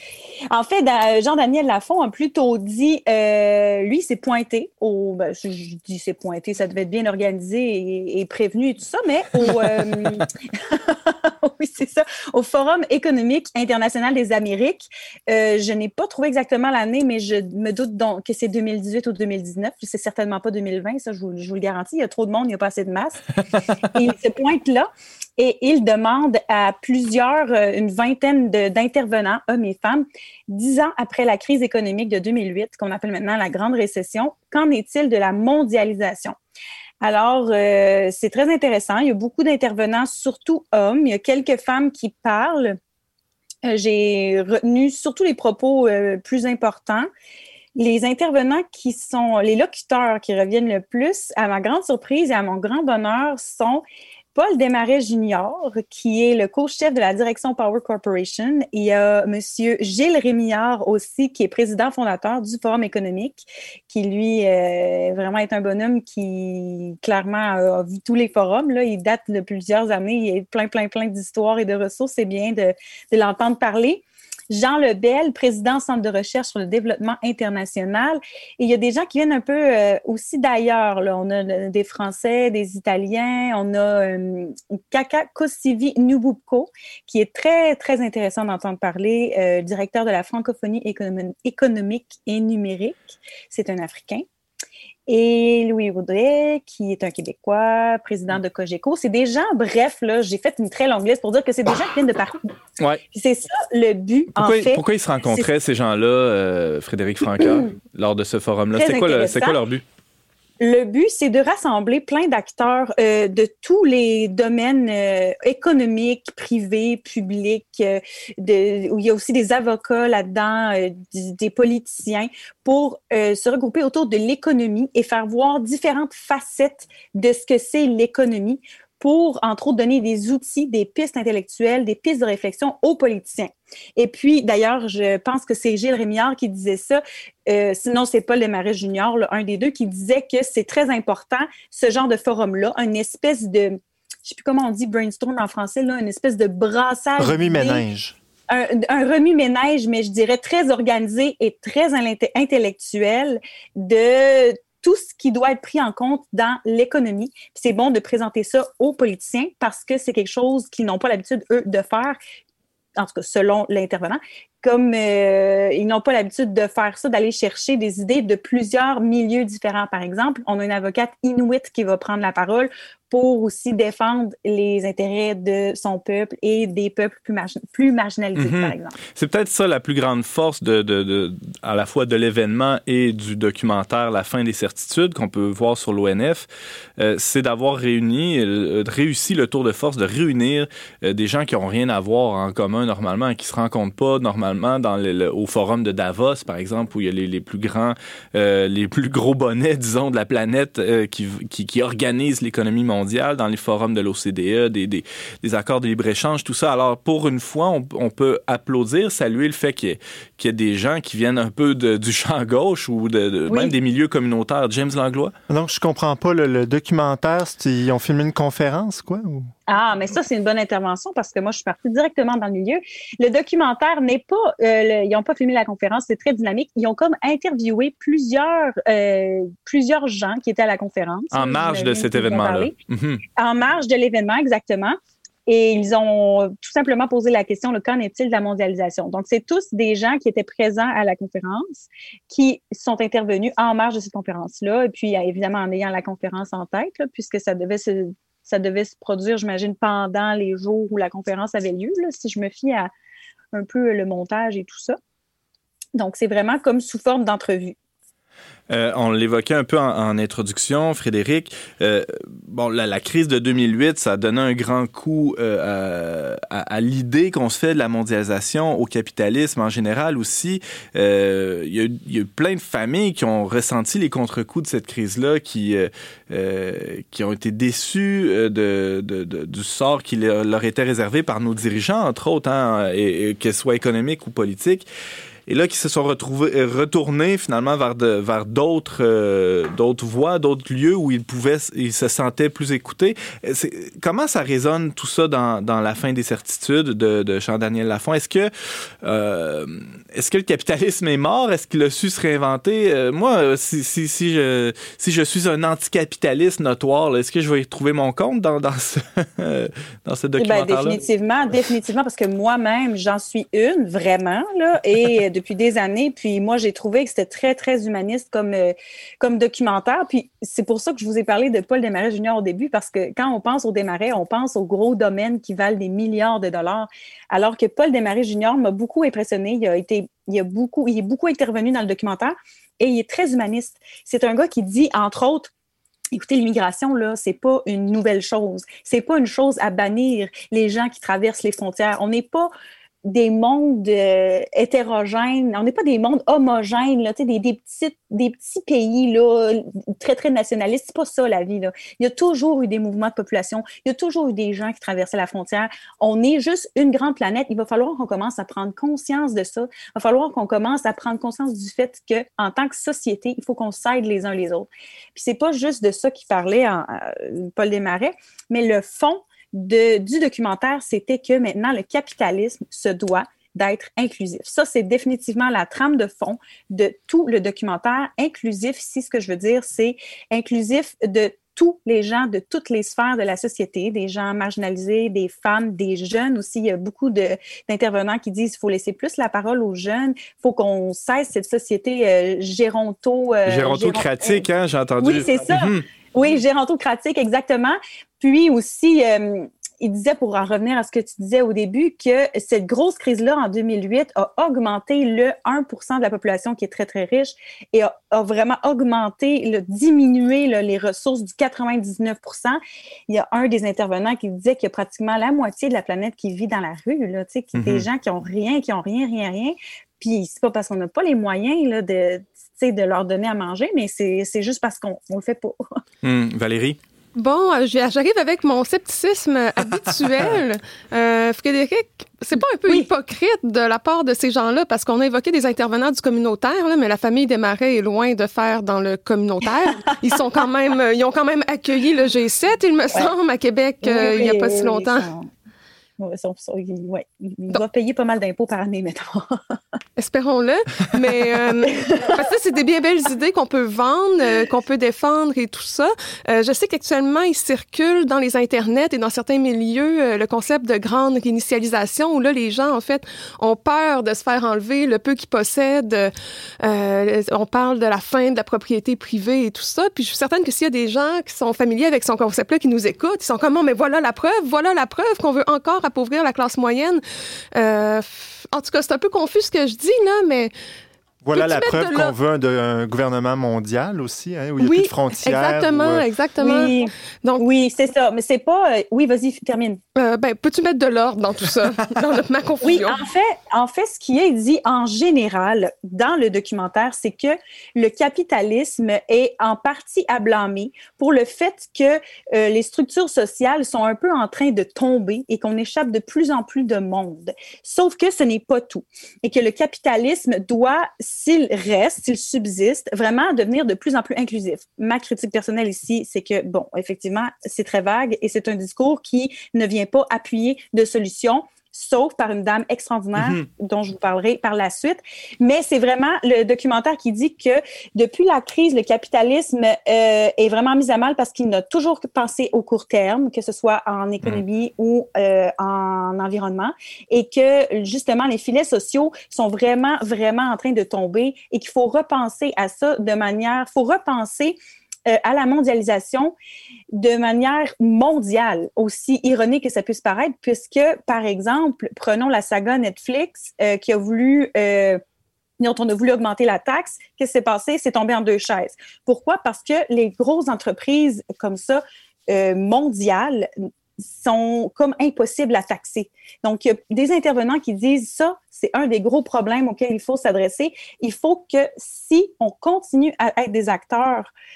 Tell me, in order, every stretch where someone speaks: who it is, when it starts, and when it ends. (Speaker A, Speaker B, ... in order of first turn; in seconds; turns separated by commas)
Speaker A: 0.5-36.4, Speaker A: 37.0-42.8, Speaker A: 43.6-47.1, Speaker A: 47.8-94.2, Speaker A: 95.1-102.4, Speaker A: 103.1-105.5, Speaker B: 104.4-109.8, Speaker A: 108.7-109.6, Speaker A: 110.6-147.8, Speaker C: 147.2-148.1, Speaker A: 148.5-162.2, Speaker A: 163.0-178.9, Speaker B: 178.3-186.4, Speaker B: 187.0-215.3, Speaker C: 215.5-219.5, Speaker A: 219.7-232.7, Speaker B: 231.3-233.2, Speaker A: 233.4-252.9, Speaker A: 253.5-255.0, Speaker A: 255.9-257.7, Speaker B: 258.7-284.9, Speaker B: 285.5-298.5, Speaker B: 299.0-311.0, Speaker A: 310.4-335.5, Speaker A: 336.1-342.5, Speaker A: 343.1-394.4, Speaker B: 393.4-395.9, Speaker A: 395.0-425.6, Speaker B: 417.5-417.9, Speaker B: 426.0-426.8, Speaker D: 427.1-445.1, Speaker A: 443.8-445.3, Speaker A: 446.0-449.4, Speaker D: 450.0-477.0, Speaker A: 451.6-452.2, Speaker D: 477.5-480.5, Speaker C: 481.2-486.0, Speaker D: 481.3-482.1, Speaker D: 484.6-487.4, Speaker A: 486.4-489.8, Speaker D: 489.9-493.0, Speaker A: 492.6-546.3, Speaker A: 546.9-555.0, Speaker A: 555.6-563.5, Speaker A: 564.1-574.3